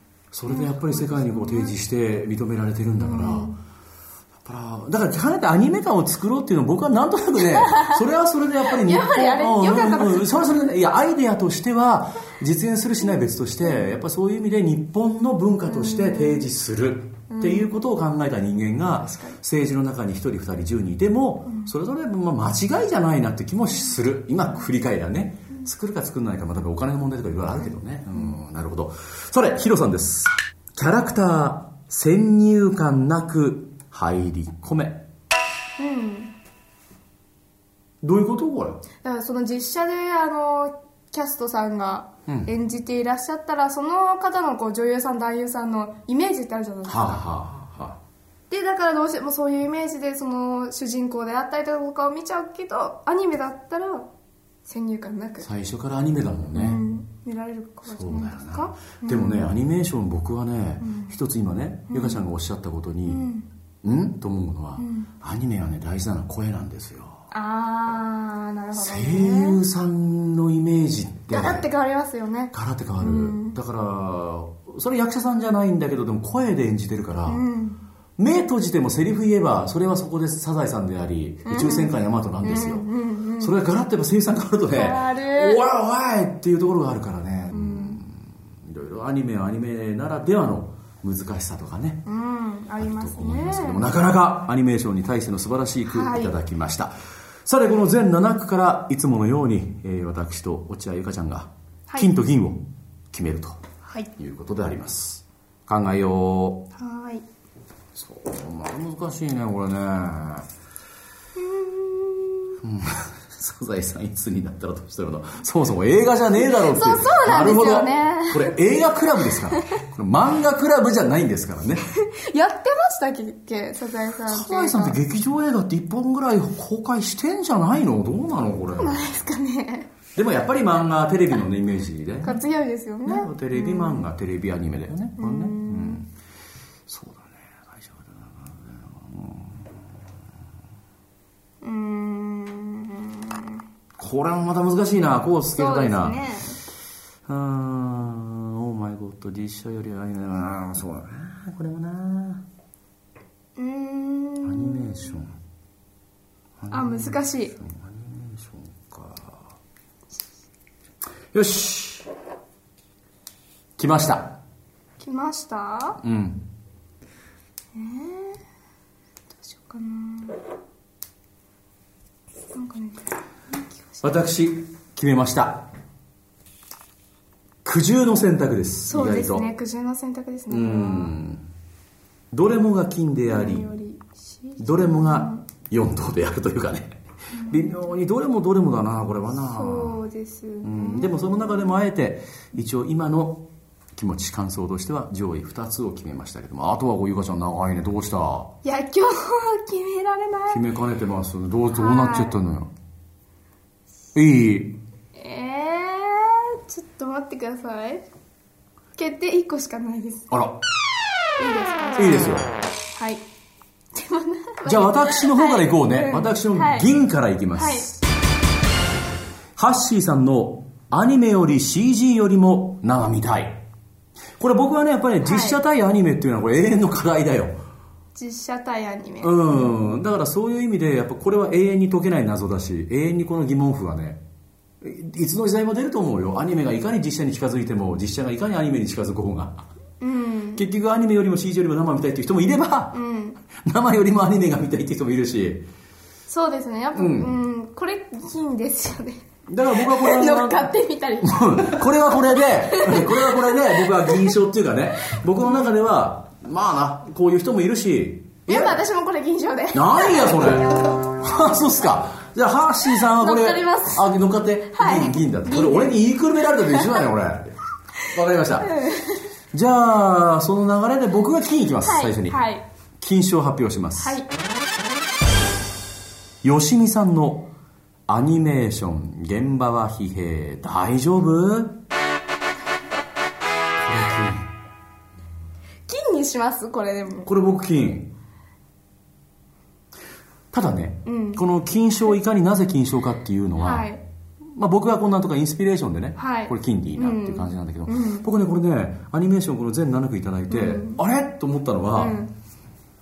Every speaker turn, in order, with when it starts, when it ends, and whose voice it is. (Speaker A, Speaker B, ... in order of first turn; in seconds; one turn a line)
Speaker A: 0.3-3.5
Speaker B: 0.5-1.8
Speaker B: 3.0-3.6
Speaker A: 4.5-35.1
Speaker B: 7.4-7.9
Speaker B: 8.7-10.5
Speaker B: 15.6-16.5
Speaker B: 17.3-17.7
Speaker B: 19.1-19.4
Speaker B: 21.5-21.7
Speaker B: 27.6-28.4
Speaker B: 35.8-36.3
Speaker A: 38.0-38.8
Speaker B: 39.0-47.2
Speaker A: 42.3-42.5
Speaker A: 46.9-48.0
Speaker B: 48.5-54.1
Speaker B: 54.6-55.5
Speaker A: 55.4-56.8
Speaker B: 56.5-59.5
Speaker A: 57.9-63.2
Speaker B: 60.8-61.1
Speaker B: 61.9-62.2
Speaker B: 63.0-63.5
Speaker A: 63.8-67.2
Speaker B: 64.8-65.1
Speaker B: 67.3-69.6
Speaker A: 68.8-71.7
Speaker B: 71.3-73.5
Speaker A: 72.5-77.4
Speaker B: 77.3-77.8
Speaker A: 78.2-82.9
Speaker B: 81.5-83.5
Speaker A: 83.4-92.0
Speaker B: 84.7-85.6
Speaker B: 87.5-88.0
Speaker B: 92.1-93.8
Speaker A: 92.8-96.9
Speaker B: 95.9-96.3
Speaker A: 97.5-103.6
Speaker A: 104.2-106.7
Speaker B: 106.8-107.2
Speaker A: 108.0-110.5
Speaker B: 111.4-112.6
Speaker A: 112.6-121.9
Speaker B: 116.3-118.5
Speaker B: 122.0-125.0
Speaker A: 124.3-129.1
Speaker B: 128.8-129.9
Speaker A: 130.2-132.4
Speaker B: 132.2-134.1
Speaker A: 133.1-136.1
Speaker B: 135.2-136.0
Speaker A: 136.9-139.6
Speaker B: 141.6-143.6
Speaker A: 144.0-146.2
Speaker B: 145.6-146.6
Speaker A: 147.3-152.4
Speaker B: 153.6-154.8
Speaker A: 154.4-155.3
Speaker A: 156.6-159.4
Speaker B: 156.7-157.6
Speaker A: 161.3-162.1
Speaker A: 163.8-164.4
Speaker B: 165.0-166.0
Speaker A: 166.0-166.4
Speaker B: 167.8-168.4
Speaker B: 169.3-170.4
Speaker B: 172.5-174.2
Speaker A: 174.0-175.7
Speaker A: 177.6-179.5
Speaker B: 178.9-181.1
Speaker A: 180.5-181.4
Speaker A: 182.3-183.7
Speaker B: 183.3-185.4
Speaker A: 184.6-190.0
Speaker B: 187.4-187.8
Speaker B: 189.4-191.8
Speaker A: 190.6-198.5
Speaker B: 198.6-200.6
Speaker A: 200.5-202.7
Speaker B: 201.7-202.4
Speaker A: 204.2-204.8
Speaker B: 205.2-208.1
Speaker B: 209.0-210.3
Speaker A: 210.3-210.6
Speaker B: 211.4-213.2
Speaker A: 212.0-212.5
Speaker B: 213.9-216.9
Speaker A: 214.7-218.0
Speaker B: 217.5-217.9
Speaker A: 219.6-223.6
Speaker A: 224.4-227.6
Speaker B: 225.2-225.6
Speaker B: 228.2-229.7
Speaker A: 229.2-234.2
Speaker A: 234.8-239.7
Speaker B: 240.0-240.7
Speaker A: 240.6-243.0
Speaker B: 242.9-243.4
Speaker A: 243.6-245.7
Speaker B: 246.3-251.9
Speaker A: 246.9-247.3
Speaker A: 249.5-250.7
Speaker A: 251.2-258.8
Speaker B: 252.7-254.4
Speaker B: 258.5-260.5
Speaker A: 259.7-267.6
Speaker B: 263.0-264.2
Speaker B: 264.7-266.0
Speaker B: 266.7-267.1
Speaker A: 268.1-268.7
Speaker B: 268.6-269.2
Speaker A: 269.5-272.4
Speaker B: 271.8-272.6
Speaker A: 273.0-274.2
Speaker B: 274.0-274.3
Speaker A: 276.4-277.5
Speaker A: 278.1-281.8
Speaker A: 283.8-284.5
Speaker B: 285.9-287.3
Speaker A: 287.2-288.1
Speaker A: 290.5-293.9
Speaker B: 291.1-291.4
Speaker B: 293.6-294.0
Speaker A: 294.6-302.2
Speaker B: 296.2-298.3
Speaker B: 300.5-301.0
Speaker B: 301.9-302.3